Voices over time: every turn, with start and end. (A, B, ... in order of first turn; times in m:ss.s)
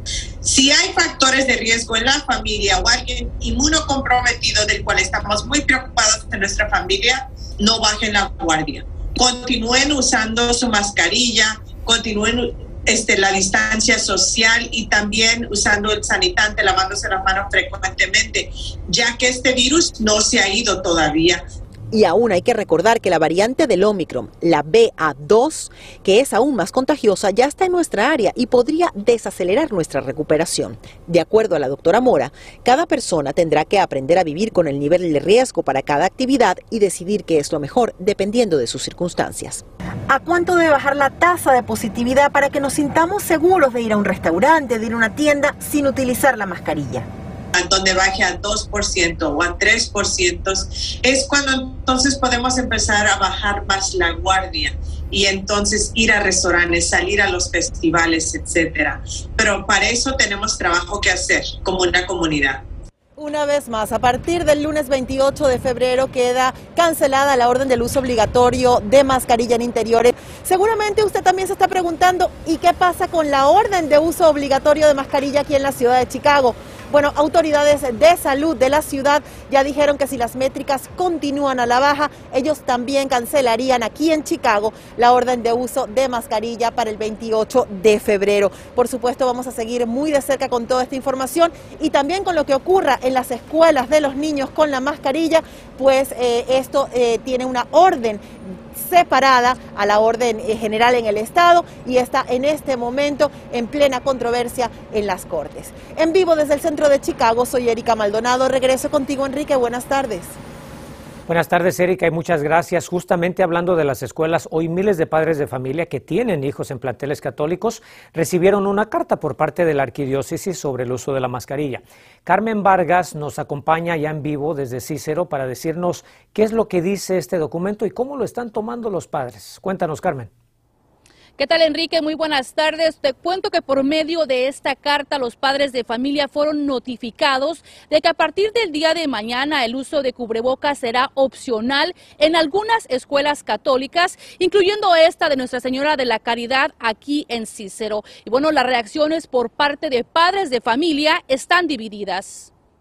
0:00.4-0:21.4 A
0:21.9-0:39.6 B
0:40.1-0:47.1 C
0:47.5-1:02.6 A
1:03.2-1:50.4 C
1:51.3-2:10.3 D
2:11.4-2:32.5 E